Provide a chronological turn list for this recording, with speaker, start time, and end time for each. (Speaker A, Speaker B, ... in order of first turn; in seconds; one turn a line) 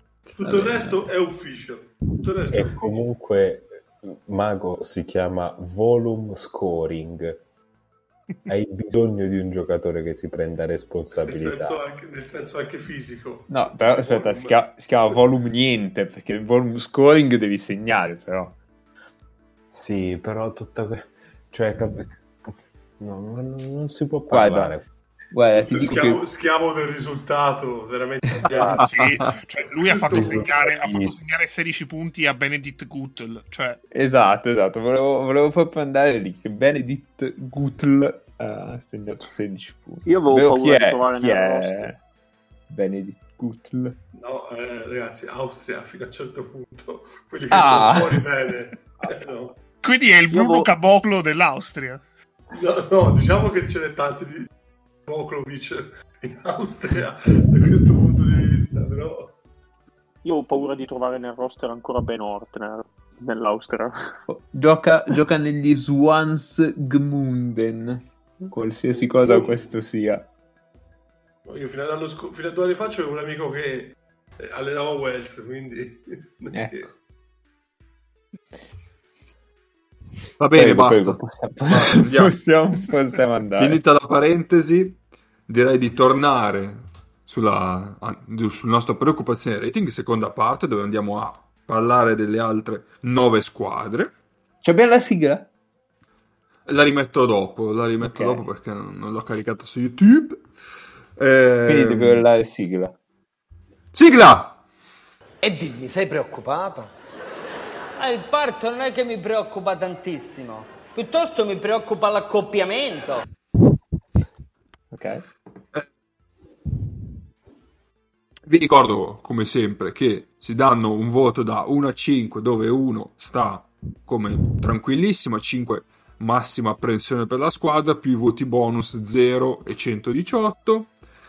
Speaker A: 0.4-3.0
Speaker B: 2.5-7.4
Speaker B: 8.5-11.8
Speaker A: 11.3-14.6
Speaker C: 13.5-18.6
Speaker B: 19.7-24.9
Speaker C: 24.3-24.8
Speaker C: 25.3-26.2
Speaker A: 25.5-28.9
Speaker D: 28.6-33.8
Speaker E: 28.7-29.3
Speaker A: 29.9-30.6
Speaker B: 30.1-31.1
Speaker C: 33.9-42.0
Speaker F: 40.0-41.9
Speaker C: 42.7-43.9
Speaker A: 44.1-49.5
Speaker C: 47.5-48.2
Speaker D: 49.8-52.0
Speaker F: 50.3-50.7
Speaker A: 52.5-54.5
Speaker A: 55.0-59.3
Speaker F: 60.2-64.1
Speaker C: 64.3-70.2
Speaker A: 69.2-69.6
Speaker A: 71.5-76.9
Speaker E: 80.4-82.3
Speaker C: 80.5-83.8
Speaker E: 83.5-94.1
Speaker C: 94.6-95.5
Speaker E: 96.7-100.5
Speaker C: 98.0-98.5
Speaker E: 101.2-102.2
Speaker C: 101.7-102.9
Speaker E: 103.9-104.6
Speaker G: 105.4-106.9
Speaker G: 108.0-113.2
Speaker C: 114.9-115.2
Speaker E: 118.5-130.9